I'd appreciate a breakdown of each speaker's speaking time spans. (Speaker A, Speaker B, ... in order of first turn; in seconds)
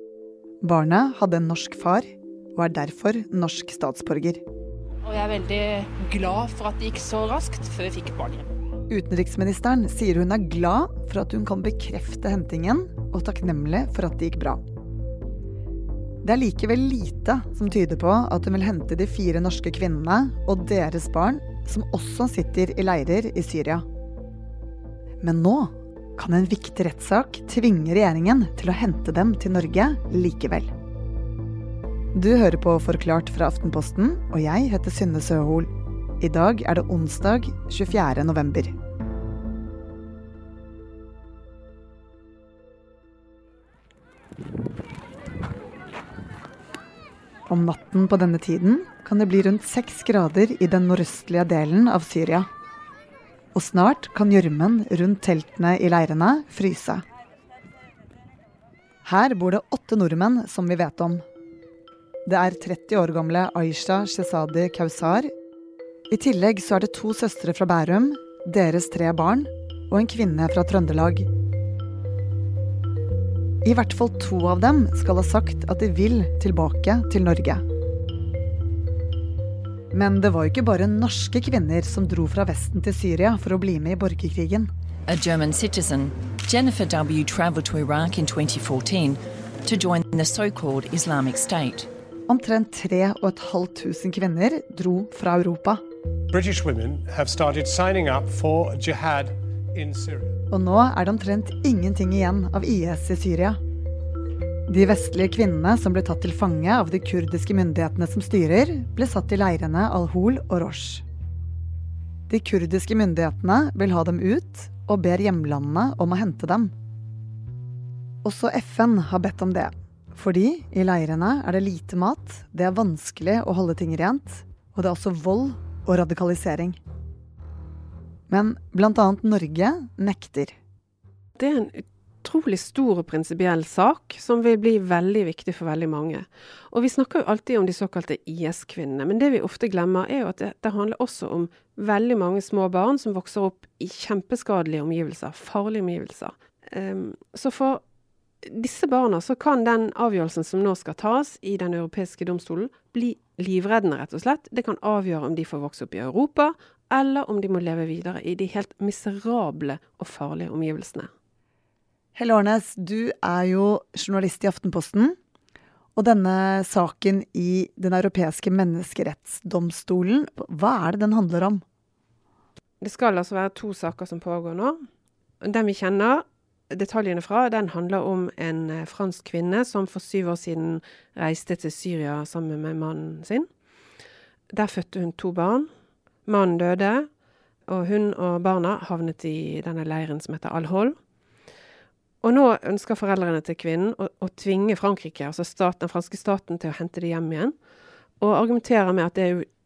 Speaker A: 0.6-4.4, 8.9-14.6, 16.2-23.9, 25.2-30.7, 32.1-38.7, 47.5-52.5, 53.5-57.0, 59.0-61.2, 62.3-65.3, 66.1-71.3, 73.6-77.6, 79.9-84.7, 92.3-95.8, 100.5-103.6, 104.7-111.0, 112.3-116.7, 118.2-126.8, 128.3-130.6, 162.2-165.2, 166.0-171.6
Speaker B: 5.0-8.5
Speaker C: 85.1-91.9
Speaker D: 96.3-100.3
Speaker E: 131.4-147.8, 148.4-161.1, 172.8-174.8, 175.4-183.5, 184.5-185.7, 186.3-187.1, 187.7-190.9, 192.2-197.6, 198.2-199.5